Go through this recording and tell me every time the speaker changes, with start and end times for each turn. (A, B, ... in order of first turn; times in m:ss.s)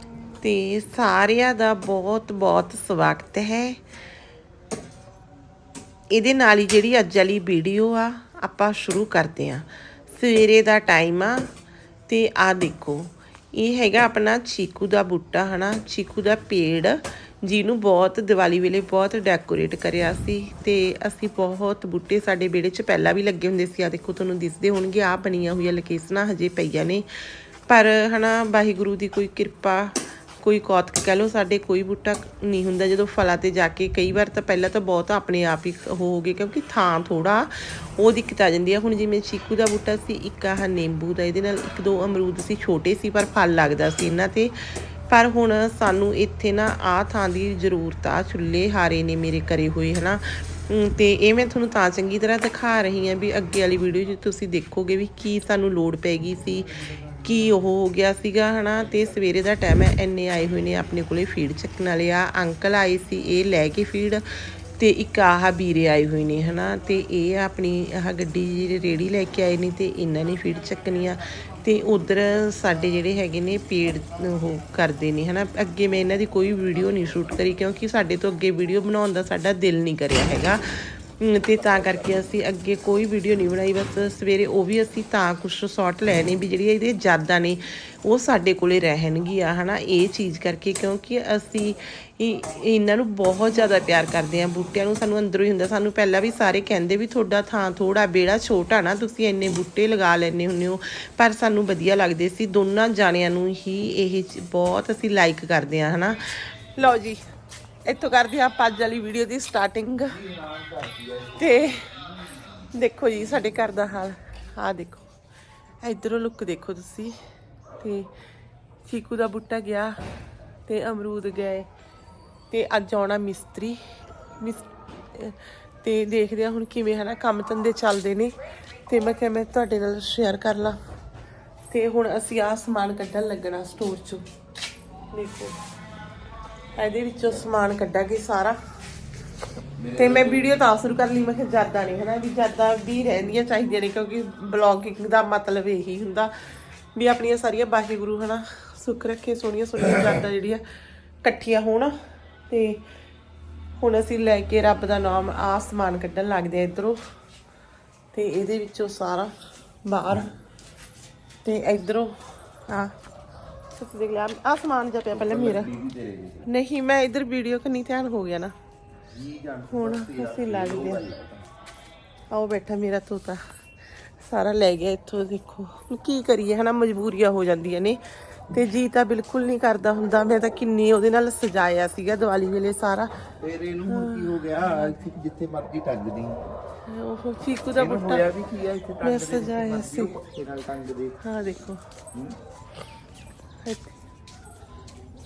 0:00.4-0:03.8 A
0:06.1-0:11.4 A
0:12.1-0:27.0 A
0:27.7-0:44.5 A
0:45.1-1:04.2 A
1:04.8-1:47.2 A
1:16.7-1:17.3 B
1:21.5-1:22.2 B
1:47.8-1:50.2 A
1:50.1-1:51.7 B
1:51.3-1:51.9 A
1:52.7-1:55.1 A
1:55.8-1:57.2 A
1:57.8-1:58.1 A
1:58.8-2:00.0 A
2:00.6-2:01.7 A
2:02.5-2:03.8 A
2:04.4-2:08.3 A
2:08.9-2:10.8 A
2:11.7-2:14.2 A
2:15.1-2:15.6 A
2:16.8-2:18.6 A
2:19.8-2:20.5 B
2:20.0-2:26.3 A
2:26.9-2:30.6 A
2:31.2-2:31.9 A
2:32.5-2:32.8 A
2:33.8-2:37.0 A
2:38.1-2:39.3 A
2:39.8-2:40.3 A
2:41.4-2:42.9 A
2:43.7-2:45.7 A
2:45.1-2:46.5 B
2:46.4-2:48.5 A
2:49.1-2:51.5 B
2:49.7-2:51.0 A
2:52.3-2:53.4 A
2:54.2-3:03.1 A
3:03.4-3:06.4 B
3:03.8-3:04.9 A
3:06.8-3:08.3 A
3:07.8-3:11.2 B
3:09.0-3:10.2 A
3:11.2-3:11.8 A
3:13.6-3:13.9 A